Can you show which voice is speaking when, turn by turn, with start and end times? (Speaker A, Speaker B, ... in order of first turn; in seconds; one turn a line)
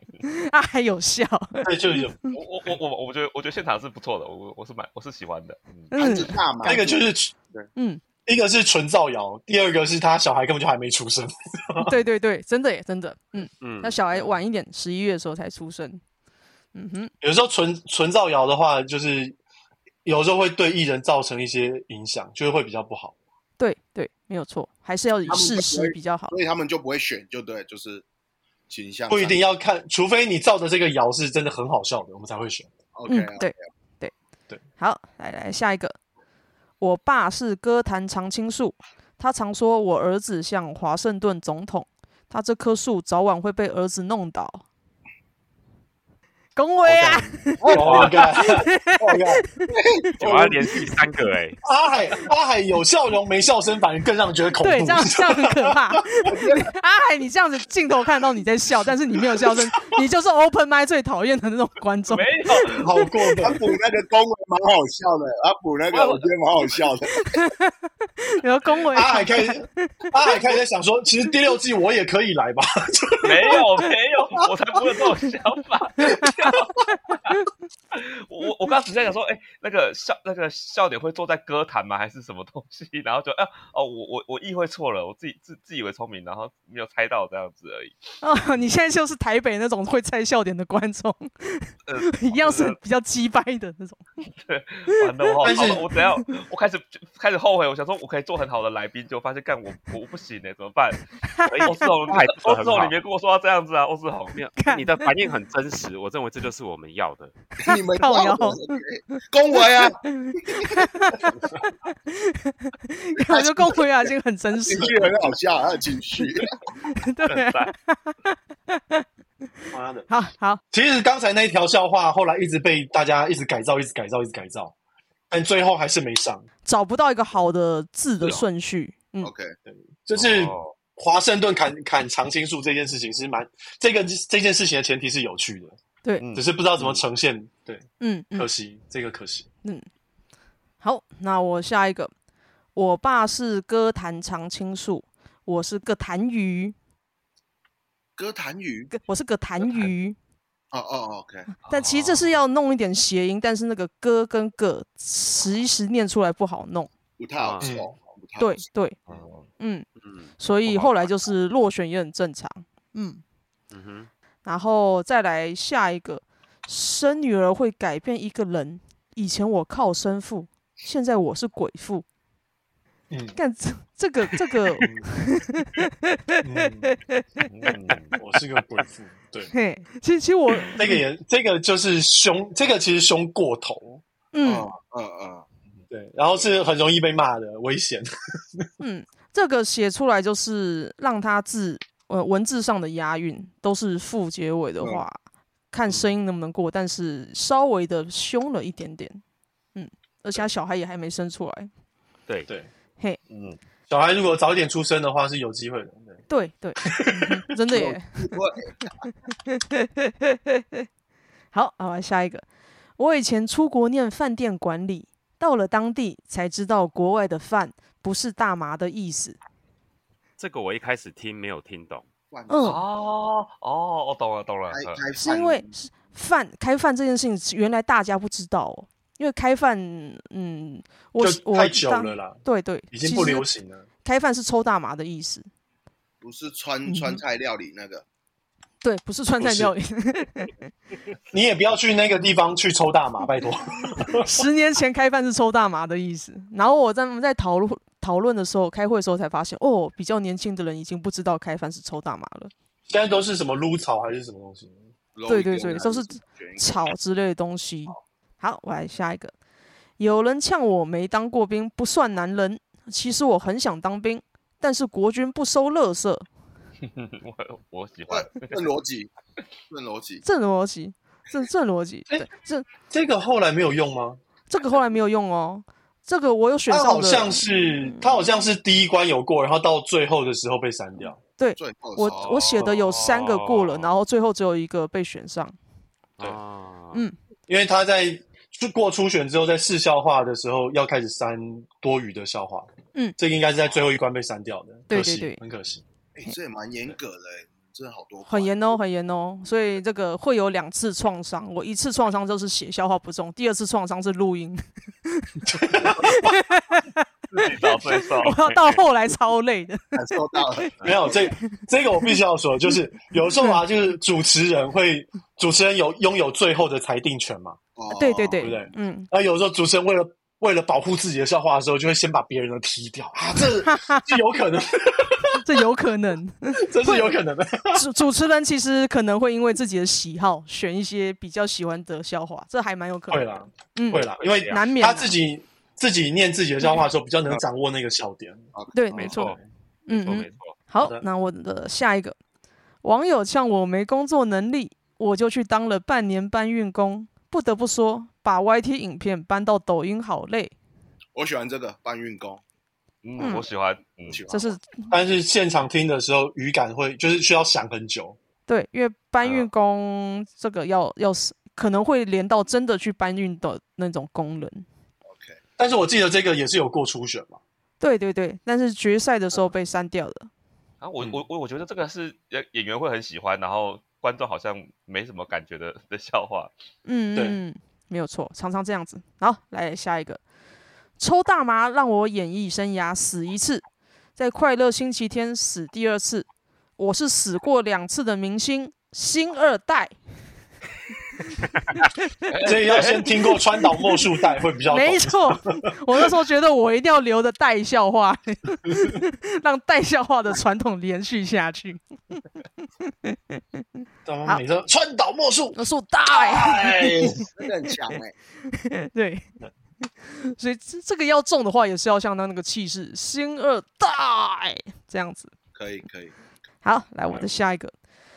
Speaker A: 0.2-2.3
Speaker B: 1.6-2.2
Speaker C: 2.3-5.9
Speaker A: 5.9-6.4
Speaker D: 6.0-7.7
Speaker B: 6.6-7.3
Speaker A: 7.7-8.0
Speaker B: 8.2-11.9
Speaker A: 11.8-16.0
Speaker E: 13.6-14.0
Speaker A: 16.7-17.1
Speaker B: 17.2-19.4
Speaker B: 20.0-23.1
Speaker A: 23.6-26.3
Speaker D: 25.3-28.0
Speaker D: 28.7-29.5
Speaker B: 29.1-32.7
Speaker D: 32.9-33.5
Speaker A: 33.1-34.1
Speaker A: 34.8-35.9
Speaker A: 36.8-44.6
Speaker A: 46.5-49.7
Speaker B: 46.9-49.4
Speaker D: 47.6-48.2
Speaker E: 47.7-48.3
Speaker D: 49.7-50.0
Speaker E: 50.2-51.6
Speaker B: 50.2-50.7
Speaker B: 51.6-56.0
Speaker A: 54.6-62.8
Speaker D: 56.2-56.7
Speaker B: 59.4-60.0
Speaker C: 62.1-62.9
Speaker B: 62.8-63.6
Speaker D: 63.4-67.4
Speaker C: 65.9-66.3
Speaker A: 67.2-70.1
Speaker B: 68.9-73.7
Speaker C: 73.2-77.4
Speaker C: 77.9-87.9
Speaker A: 88.2-94.0
Speaker C: 91.9-92.8
Speaker C: 94.3-101.0
Speaker B: 95.4-95.8
Speaker A: 101.3-101.7
Speaker E: 101.5-102.9
Speaker C: 101.6-104.4
Speaker E: 104.3-107.3
Speaker A: 104.6-105.1
Speaker D: 107.6-110.8
Speaker A: 107.7-108.8
Speaker A: 109.6-115.1
Speaker D: 113.2-114.1
Speaker D: 114.6-116.6
Speaker A: 116.8-119.0
Speaker C: 117.3-117.7
Speaker B: 119.7-120.1
Speaker A: 120.1-120.6
Speaker B: 120.7-124.7
Speaker B: 125.3-126.5
Speaker A: 126.6-129.3
Speaker D: 129.2-129.5
Speaker B: 129.7-135.8
Speaker E: 130.2-130.5
Speaker C: 136.2-137.0
Speaker B: 136.3-137.8
Speaker A: 138.0-138.5
Speaker B: 138.3-139.5
Speaker A: 140.8-142.1
Speaker A: 142.7-146.7
Speaker D: 148.2-148.9
Speaker A: 148.9-150.2
Speaker D: 150.7-151.5
Speaker C: 151.7-152.3
Speaker A: 151.7-156.9
Speaker D: 157.2-158.6
Speaker E: 157.4-157.7
Speaker B: 157.6-157.9
Speaker A: 158.4-158.9
Speaker C: 159.1-159.5
Speaker A: 159.6-159.8
Speaker E: 160.0-160.9
Speaker A: 160.4-163.2
Speaker E: 163.7-164.1
Speaker A: 164.4-172.0
Speaker B: 173.1-173.3
Speaker A: 173.3-177.7
Speaker B: 174.8-175.1
Speaker B: 176.4-176.9
Speaker C: 177.5-178.2
Speaker B: 178.2-179.5
Speaker A: 179.5-181.0
Speaker B: 180.7-184.0
Speaker A: 184.3-184.7
Speaker D: 184.4-185.4
Speaker B: 185.9-188.7
Speaker A: 188.8-195.2
Speaker A: 195.7-199.2
Speaker A: 199.7-201.7
Speaker C: 203.3-203.6
Speaker B: 203.9-206.2
Speaker A: 206.3-208.3
Speaker B: 206.8-207.4
Speaker D: 207.7-208.9
Speaker A: 209.4-210.8
Speaker A: 211.5-212.4
Speaker A: 213.0-219.4
Speaker E: 220.4-222.0
Speaker D: 222.3-222.7
Speaker A: 222.5-222.8
Speaker C: 222.6-225.0
Speaker D: 224.7-225.8
Speaker A: 225.2-233.5
Speaker B: 231.2-232.4
Speaker B: 232.9-233.8
Speaker A: 234.0-235.4
Speaker D: 236.2-238.0
Speaker A: 236.8-237.2
Speaker A: 238.8-240.6
Speaker B: 239.4-239.7
Speaker B: 241.3-244.4
Speaker A: 244.2-252.5
Speaker B: 252.9-254.8
Speaker D: 255.1-256.9
Speaker A: 255.3-259.3
Speaker A: 260.0-266.2
Speaker C: 266.9-268.6
Speaker D: 268.1-269.1
Speaker D: 269.7-270.2
Speaker A: 270.2-272.7
Speaker B: 272.8-274.2
Speaker A: 274.5-278.1
Speaker B: 276.7-281.2
Speaker A: 281.4-285.5
Speaker D: 281.6-282.4
Speaker B: 282.6-282.9
Speaker E: 282.8-283.9
Speaker E: 286.2-287.0
Speaker B: 287.5-295.8
Speaker A: 294.9-295.4
Speaker D: 296.1-298.6
Speaker A: 298.3-305.3
Speaker B: 305.4-306.3
Speaker A: 306.0-311.2
Speaker C: 307.3-308.7
Speaker D: 309.9-311.1
Speaker B: 310.8-317.6
Speaker A: 313.4-313.6
Speaker D: 317.8-318.5
Speaker A: 317.9-319.1
Speaker B: 318.4-325.4
Speaker A: 323.6-324.1
Speaker A: 325.4-327.1
Speaker B: 326.6-327.8
Speaker A: 327.7-335.1
Speaker B: 333.1-338.4
Speaker E: 334.2-334.6
Speaker D: 338.5-339.2
Speaker A: 338.7-342.1
Speaker E: 338.9-340.5
Speaker A: 342.8-350.5
Speaker D: 351.1-352.4
Speaker C: 353.0-354.2
Speaker A: 353.2-353.5
Speaker D: 354.1-354.6
Speaker A: 354.3-354.9
Speaker B: 354.9-358.2
Speaker A: 358.5-364.6
Speaker D: 365.1-365.4
Speaker B: 365.6-367.4
Speaker A: 367.8-370.3
Speaker C: 370.8-376.5
Speaker A: 376.8-380.2
Speaker B: 377.1-377.4
Speaker A: 381.0-383.6
Speaker A: 384.2-386.3
Speaker A: 386.8-389.9
Speaker C: 392.3-393.1
Speaker B: 392.4-395.6
Speaker A: 394.7-402.2
Speaker B: 398.7-398.9
Speaker A: 403.0-403.4
Speaker B: 404.0-407.2
Speaker A: 405.5-407.3
Speaker D: 407.2-408.1
Speaker A: 408.5-409.2
Speaker A: 409.9-415.3
Speaker D: 415.5-416.1
Speaker A: 416.6-417.7